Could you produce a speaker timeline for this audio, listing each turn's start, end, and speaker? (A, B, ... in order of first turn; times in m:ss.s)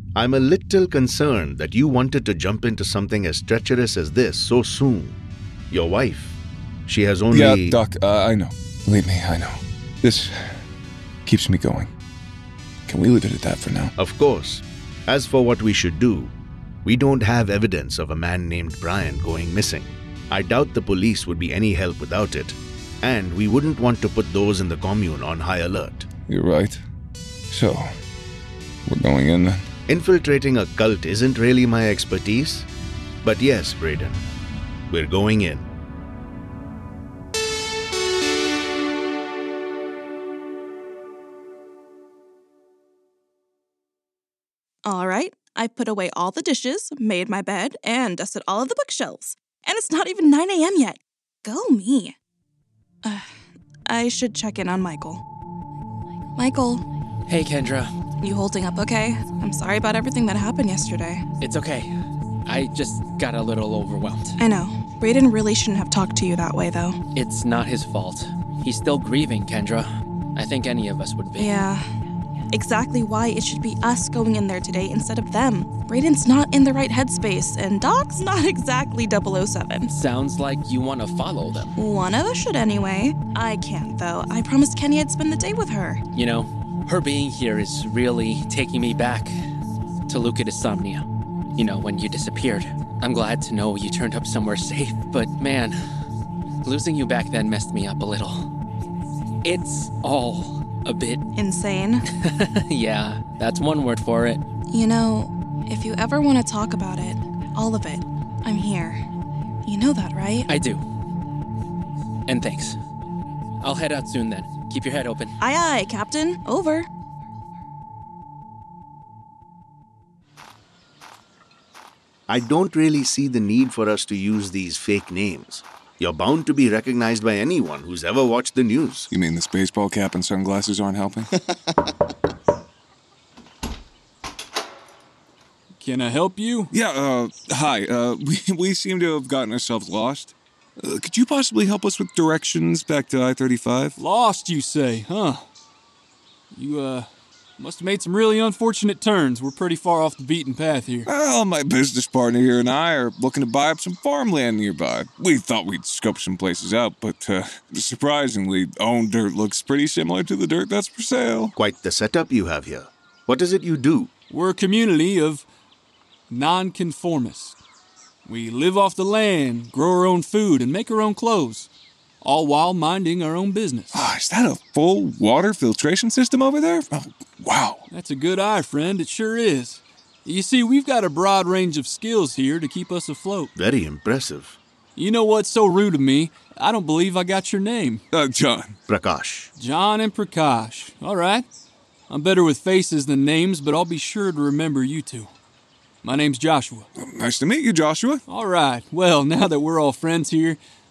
0:00.1-0:05.2 A
0:05.7-0:07.8 A
0:07.3-0:10.6 B
0:11.2-0:11.9 B
0:12.9-0:13.9 B
0:14.0-0:16.3 A
0:16.8-0:26.1 A
0:26.3-0:26.8 B
0:27.5-0:27.9 B
0:28.9-0:29.6 B
0:29.9-0:32.7 A
0:33.2-0:34.2 A
0:34.9-0:35.7 A
0:44.8-0:52.2 C
0:53.0-0:53.3 C
0:53.9-0:55.2 C
0:56.4-0:56.8 C
0:57.3-0:57.9 D
0:58.2-1:01.2 C
1:01.4-1:01.9 D
1:02.4-1:04.4 D
1:04.4-1:07.0 C
1:07.1-1:11.6 D
1:11.4-1:11.8 C
1:12.5-1:19.9 C
1:19.9-1:21.7 D
1:21.8-1:26.0 C
1:26.1-1:29.3 D
1:30.1-1:31.0 D
1:31.6-1:35.8 D
1:36.6-1:38.5 D
1:39.4-1:41.2 D
1:41.4-1:42.0 C
1:42.1-1:44.4 D
1:44.7-1:49.0 C
1:49.6-1:50.5 C
1:50.5-1:50.8 D
1:52.3-1:52.8 D
1:53.6-1:55.3 D
1:55.4-1:56.9 C
2:02.3-2:09.1 A
2:09.1-2:11.3 B
2:15.8-2:16.7 E
2:16.7-2:24.0 B
2:24.0-2:25.4 E
2:26.5-2:31.1 E
2:31.0-2:41.5 B
2:41.6-2:44.1 A
2:44.3-2:45.4 E
2:46.3-2:47.6 E
2:48.2-2:51.7 E
2:52.2-2:54.1 E
2:53.9-2:57.9 B
2:57.9-3:03.5 E
3:03.5-3:04.6 A
3:05.0-3:08.0 E
3:08.1-3:08.8 B
3:08.9-3:09.5 A
3:09.6-3:11.4 E
3:12.1-3:15.3 E
3:16.0-3:16.9 E
3:17.0-3:18.2 B
3:18.3-3:20.6 E